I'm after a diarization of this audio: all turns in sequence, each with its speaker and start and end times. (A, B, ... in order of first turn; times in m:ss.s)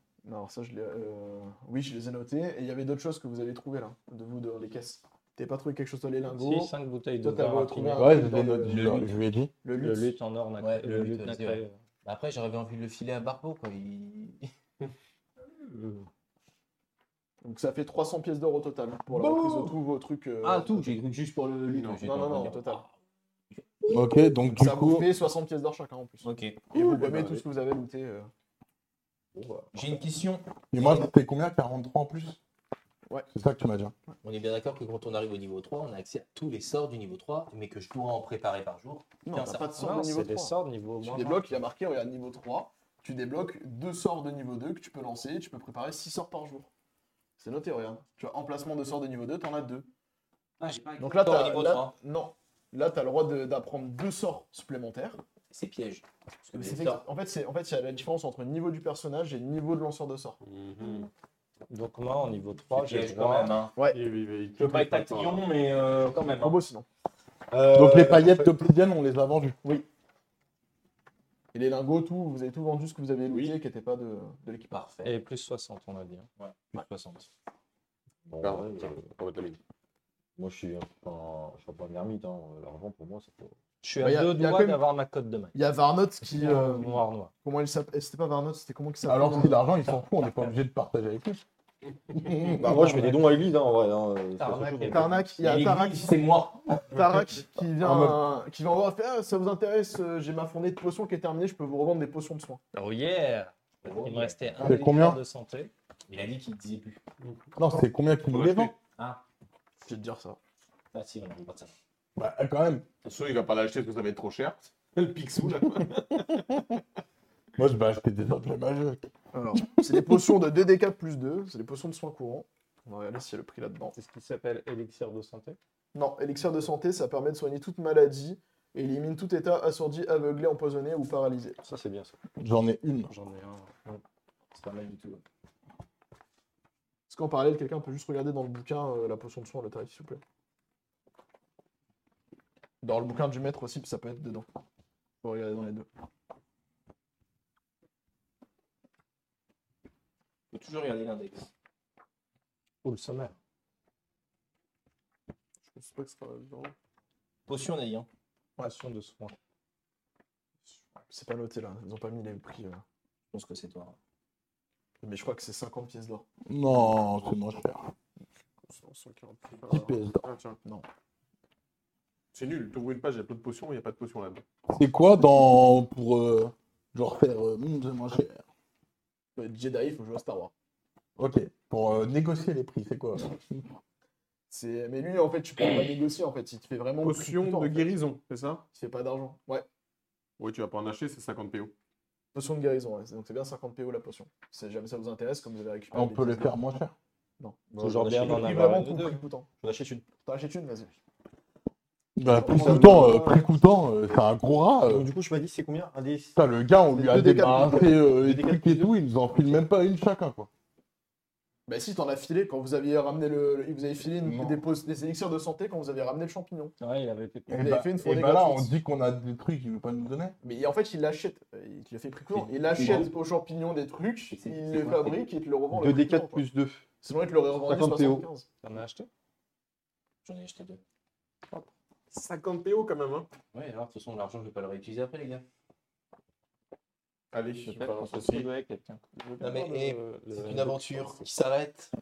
0:00.2-0:09.0 A
0:06.3-0:08.2 B
0:07.9-0:09.5 C
0:08.6-0:09.1 D
0:09.6-0:10.1 A
0:09.8-0:11.8 B
0:10.6-0:14.5 D
0:15.7-0:16.0 B
0:17.4-0:21.0 A
0:19.1-0:19.8 D
0:20.4-0:22.9 D
0:21.7-0:22.1 E
0:22.0-0:22.8 A
0:23.5-0:24.0 D
0:23.9-0:25.1 C
0:24.4-0:28.3 A
0:26.2-0:26.8 D
0:29.3-0:30.0 F
0:29.7-0:31.1 D
0:30.7-0:32.4 C
0:33.3-0:33.9 C
0:34.2-0:39.2 D
0:39.2-0:46.7 A
0:39.3-0:41.5 B
0:47.4-0:49.9 A
0:50.6-0:51.9 D
0:51.0-0:55.2 A
0:55.5-0:57.0 D
0:56.5-1:00.4 A
1:00.4-1:01.1 E
1:01.7-1:03.6 B
1:02.8-1:03.7 D
1:03.8-1:04.0 A
1:03.8-1:05.5 E
1:04.6-1:06.6 F
1:06.3-1:06.9 A
1:07.5-1:08.5 F
1:07.7-1:09.6 C
1:11.5-1:14.8 A
1:13.3-1:13.6 E
1:14.7-1:15.1 D
1:15.0-1:17.3 B
1:18.3-1:19.0 F
1:18.4-1:19.6 E
1:20.4-1:23.6 F
1:23.8-1:25.6 B
1:24.0-1:24.8 A
1:25.6-1:29.6 A
1:26.3-1:27.3 B
1:29.1-1:31.4 C
1:32.1-1:33.2 C
1:32.5-1:35.2 F
1:34.4-1:35.1 B
1:34.8-1:36.1 A
1:35.3-1:37.0 D
1:36.9-1:42.6 A
1:37.8-1:38.2 C
1:42.7-1:45.7 B
1:43.8-1:44.7 D
1:44.6-1:45.2 C
1:46.1-1:47.0 D
1:47.2-1:47.5 E
1:47.6-1:48.7 C
1:48.2-1:48.7 E
1:49.0-1:49.2 D
1:49.8-1:50.4 A
1:50.9-1:51.7 D
1:52.2-1:52.9 C
1:53.0-1:56.4 E
1:57.6-2:00.4 C
1:59.3-2:03.9 A
2:03.9-2:05.6 B
2:05.9-2:11.6 A
2:11.6-2:12.1 F
2:12.4-2:13.1 C
2:13.1-2:14.0 B
2:14.6-2:15.2 B
2:17.1-2:20.2 A
2:22.8-2:24.5 A
2:25.2-2:25.9 A
2:30.5-2:31.5 D
2:32.8-2:33.4 B
2:35.6-2:36.7 E
2:37.5-2:38.1 D
2:38.6-2:39.4 B
2:41.1-2:42.8 A
2:43.3-2:44.0 D
2:45.0-2:47.0 A
2:46.5-2:47.9 C
2:48.6-2:50.6 E
2:49.7-2:50.2 C
2:52.3-2:54.4 E
2:54.7-2:58.4 C
2:59.4-3:00.5 A
3:01.2-3:03.6 C
3:04.5-3:07.9 A
3:07.0-3:08.6 E
3:08.7-3:09.6 A
3:10.4-3:11.7 E
3:12.3-3:16.6 A
3:15.9-3:16.9 C
3:17.7-3:18.7 F
3:17.8-3:19.2 B
3:18.2-3:19.5 A
3:19.6-3:20.1 F
3:20.2-3:21.0 A
3:22.2-3:25.1 C
3:22.3-3:23.3 A
3:22.3-3:23.4 F
3:24.8-3:26.4 F
3:26.4-3:30.5 C
3:27.0-3:27.8 A
3:27.0-3:29.6 F
3:31.7-3:36.7 A
3:34.2-3:34.6 C
3:36.8-3:37.8 B
3:37.5-3:40.4 C
3:37.6-3:38.7 A
3:40.4-3:46.4 A
3:42.3-3:43.2 D
3:44.3-3:45.2 D
3:45.7-3:46.9 F
3:47.0-3:48.4 A
3:47.5-3:48.3 F
3:48.6-3:49.1 B
3:50.2-3:50.8 D
3:52.1-3:53.3 E
3:53.5-3:55.4 D
3:57.3-3:58.5 E
3:57.7-4:00.8 B
3:59.4-4:01.9 D